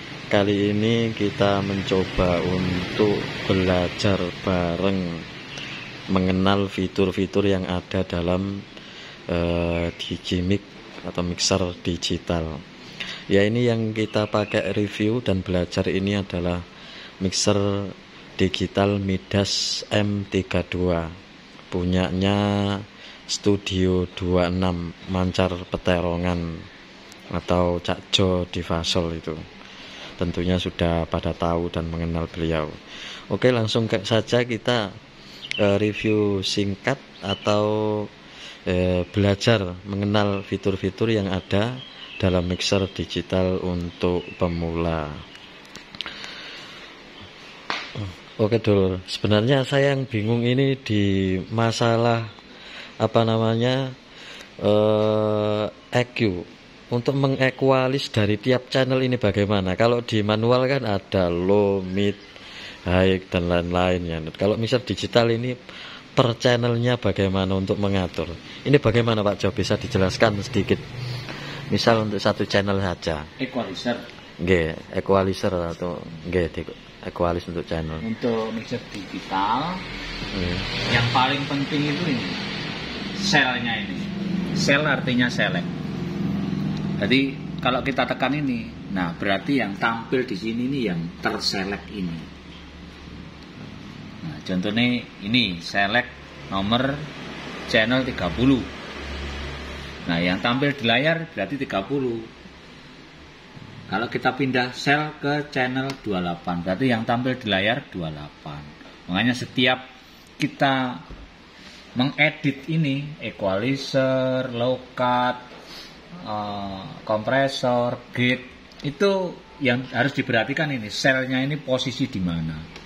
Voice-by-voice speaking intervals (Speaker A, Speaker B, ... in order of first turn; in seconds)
Speaker A: 0.3-5.2, 6.1-8.5, 9.3-12.6, 13.3-16.6, 17.2-21.1, 21.7-26.6, 27.3-29.4, 30.2-32.8, 33.3-34.9, 35.6-38.1, 38.7-45.2, 48.0-52.3, 53.0-54.0, 54.6-62.2, 62.9-65.6, 66.2-70.8, 71.7-73.3, 74.4-78.0, 80.3-80.8
Speaker B: 73.4-74.0, 78.0-79.8, 80.9-82.5, 83.2-85.7, 87.0-92.3, 94.2-97.1, 97.7-98.7, 100.0-102.3, 103.9-109.8, 110.4-111.0, 112.0-115.4, 116.2-122.7